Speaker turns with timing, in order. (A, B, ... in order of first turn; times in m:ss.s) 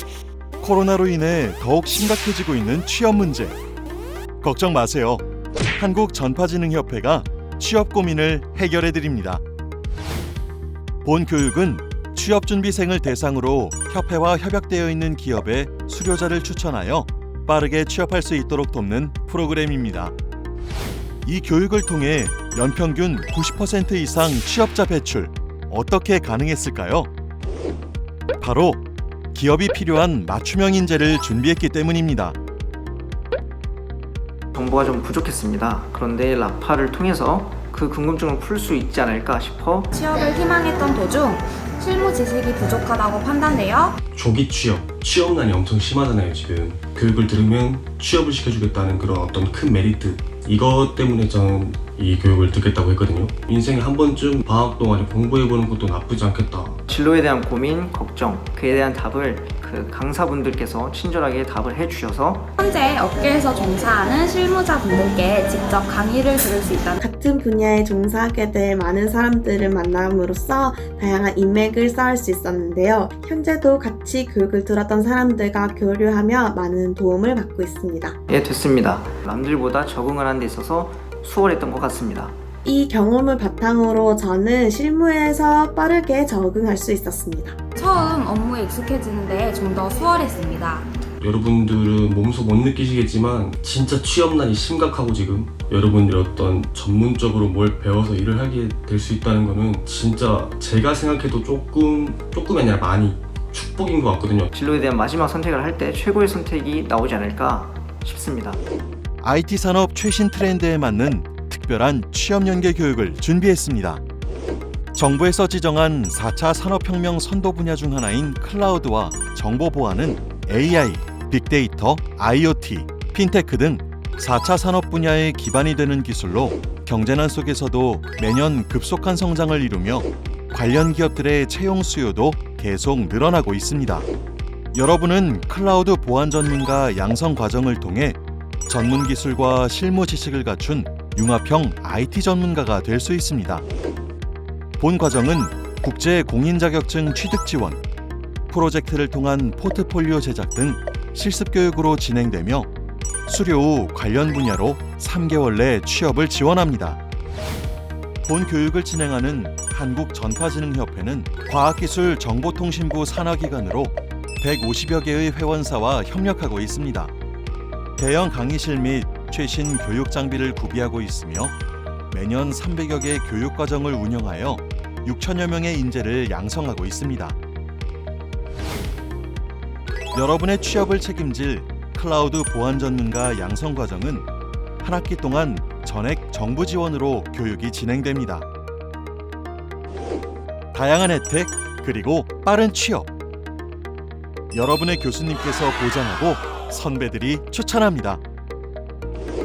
0:00.6-0:03.6 A
0:04.4-0:05.2 A
0:05.7-0:09.4 A
0:11.0-0:20.1 A
0:21.2-0:27.1 A
0:28.4-0:28.8 A
0:29.3-0:32.4 A
0:34.5-0:39.9 B
0:39.9-0:44.0 C
0:44.1-0:56.8 D
0:56.9-1:02.5 B
1:02.6-1:07.0 C
1:07.0-1:18.2 E
1:18.3-1:22.4 B
1:22.6-1:27.6 E
1:27.8-1:30.9 C
1:31.2-1:44.5 D
1:44.5-1:48.6 B
1:49.2-1:54.0 A
1:54.9-2:14.1 A
2:14.7-2:23.6 A
2:24.8-2:27.8 A
2:28.5-2:32.7 A
2:33.2-2:37.0 A
2:38.2-2:47.1 A
2:48.0-2:51.5 A
2:52.1-2:57.4 A
3:00.1-3:04.2 A
3:04.8-3:08.4 A
3:10.7-3:13.1 A
3:14.5-3:18.2 A